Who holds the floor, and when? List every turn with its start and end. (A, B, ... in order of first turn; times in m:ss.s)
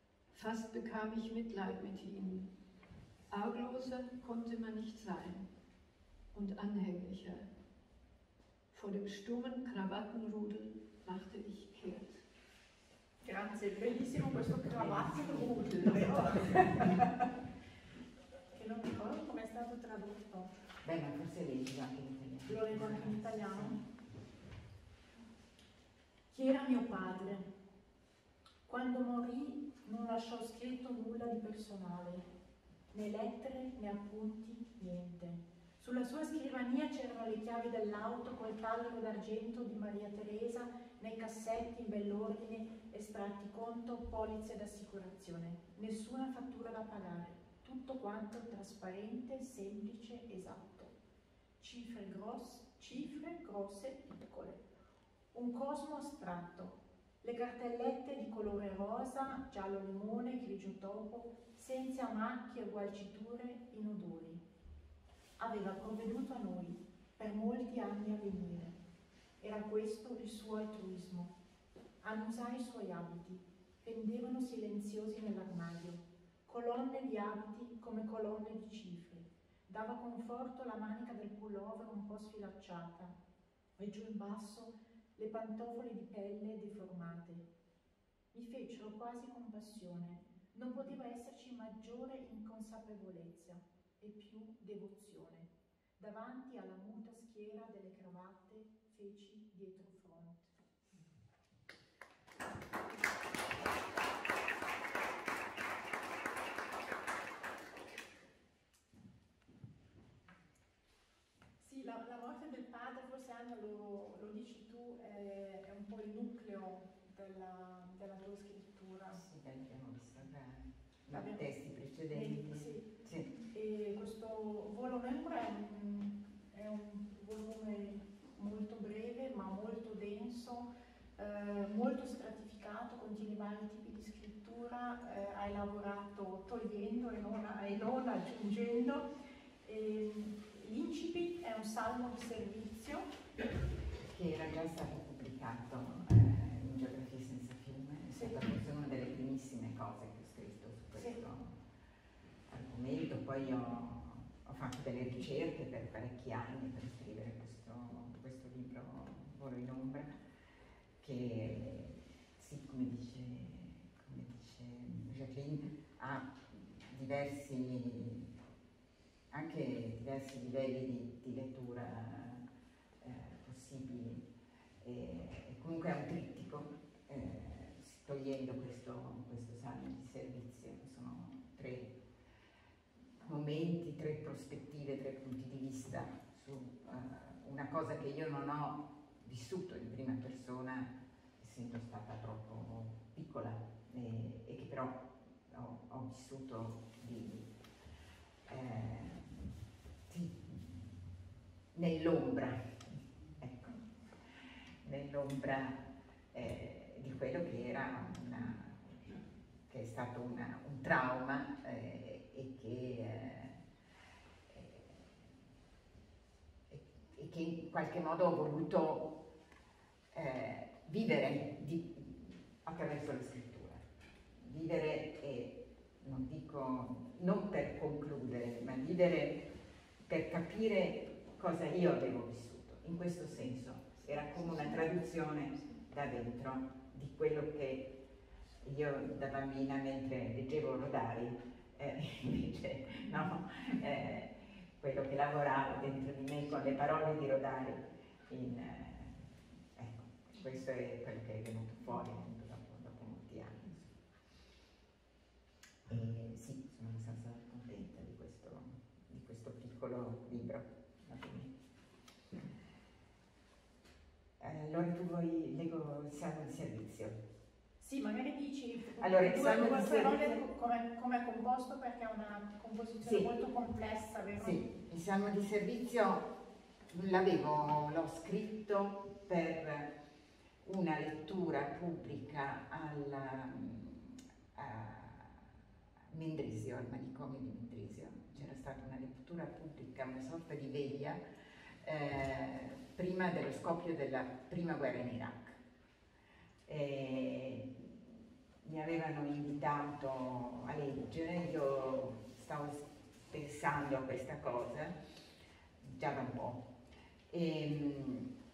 0:00.3-0:02.5 A
0:03.3-0:05.5 A
0:06.3-0:07.5 A
0:08.7-0:12.2 A
0:13.2-0:17.3 B
0:14.6-0:16.9 C
0:18.5-0:20.5 B
0:20.8-0:23.8 C
0:22.5-0:23.8 B
0:26.3-0:27.5 B
0:28.6-0:32.2 B
0:32.9-0:50.9 B
0:51.6-0:54.6 B
0:55.3-1:04.4 B
1:05.4-1:08.8 B
1:09.4-1:11.3 B
1:12.0-1:23.2 B
1:23.8-1:27.4 B
1:28.3-1:40.5 B
1:51.6-1:59.2 B
1:59.1-2:03.3 C
2:01.1-2:01.4 B
2:02.1-2:02.9 B
2:03.5-2:19.1 B
2:19.6-2:23.1 B
2:24.0-2:31.6 C
2:28.1-2:28.4 B
2:32.5-2:40.1 C
2:41.0-2:48.3 C
2:49.3-2:52.4 C
2:53.0-2:54.3 C
2:54.8-3:02.0 C
3:03.2-3:17.5 C
3:18.4-3:19.6 C
3:20.1-3:21.0 C
3:21.7-3:23.8 C
3:24.8-3:33.6 C
3:34.5-3:35.3 C
3:36.7-3:39.2 C
3:40.1-3:43.8 C
3:44.3-3:49.5 C
3:50.0-3:58.0 C
3:54.0-3:55.8 A
3:58.6-4:14.0 C
4:15.8-4:21.5 C
4:24.4-4:27.2 C
4:27.8-4:34.6 B
4:29.0-4:30.4 C
4:33.0-4:33.3 C
4:34.4-4:36.3 C
4:36.9-4:39.9 C
4:40.6-4:45.5 C
4:46.1-4:51.2 C
4:51.8-4:55.6 C
4:56.6-5:05.0 C
5:05.8-5:06.7 C
5:07.3-5:08.3 C